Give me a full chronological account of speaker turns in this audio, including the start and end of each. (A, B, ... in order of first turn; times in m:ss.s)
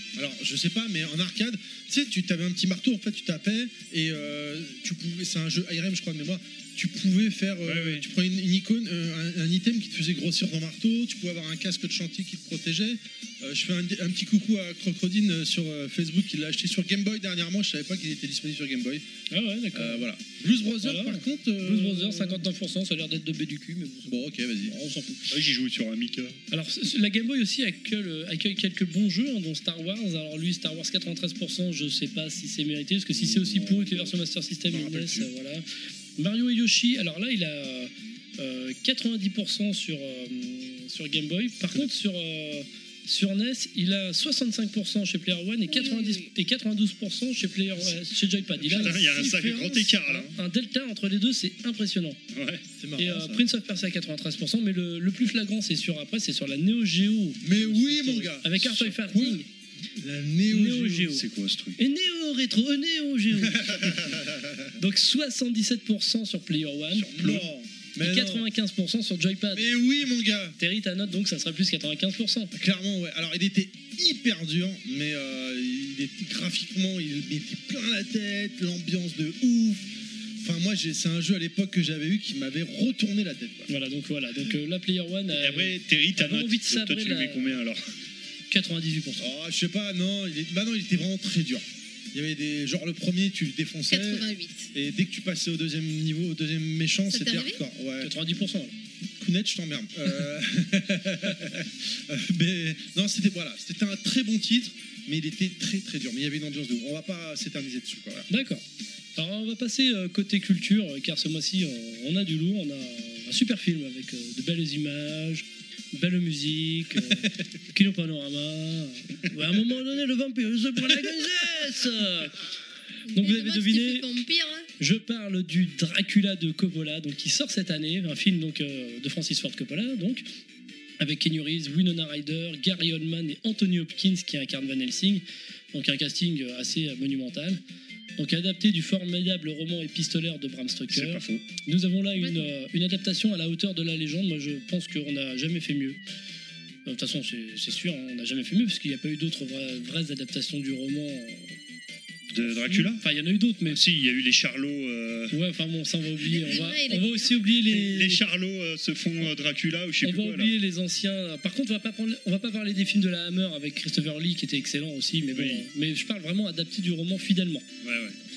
0:00.2-0:19.0 A
0:07.6-0:08.0 B
0:19.3-0:20.1 C
0:19.7-0:22.5 A
0:20.8-0:25.3 C
0:24.1-0:24.8 A
0:25.3-0:26.4 B
0:26.5-0:35.6 C
0:33.2-0:34.1 B
0:34.7-0:35.3 A
0:36.2-0:52.2 C
0:45.7-0:46.3 D
0:48.6-0:49.3 A
0:48.6-0:50.3 B
0:52.3-0:52.6 B
0:52.8-0:53.5 A
0:53.0-0:59.5 C
0:57.4-0:59.4 A
1:00.0-1:01.2 A
1:00.5-1:01.2 C
1:01.1-1:01.8 B
1:01.8-1:04.2 C
1:03.5-1:04.5 A
1:04.8-1:07.3 C
1:07.0-1:07.4 B
1:07.1-1:08.5 A
1:08.0-1:09.7 C
1:09.5-1:10.6 A
1:10.6-1:12.5 C
1:12.5-1:23.7 A
1:23.7-1:27.6 C
1:25.3-1:27.9 B
1:28.5-1:29.3 C
1:29.2-1:38.1 A
1:33.9-1:34.7 D
1:37.1-1:37.6 D
1:38.0-1:38.8 C
1:39.2-1:48.3 A
1:48.3-1:48.6 C
1:49.2-2:02.4 C
2:03.1-2:04.7 D
2:03.1-2:04.1 C
2:04.8-2:10.2 C
2:11.0-2:17.6 C
2:18.2-2:26.0 C
2:20.9-2:21.5 B
2:22.2-2:22.5 D
2:26.9-2:31.6 C
2:32.3-2:33.0 B
2:32.4-2:33.8 C
2:33.7-2:35.4 B
2:35.3-2:38.2 C
2:36.2-2:37.4 D
2:37.7-2:40.6 B
2:40.0-2:47.7 C
2:45.3-2:45.6 B
2:47.8-2:48.2 B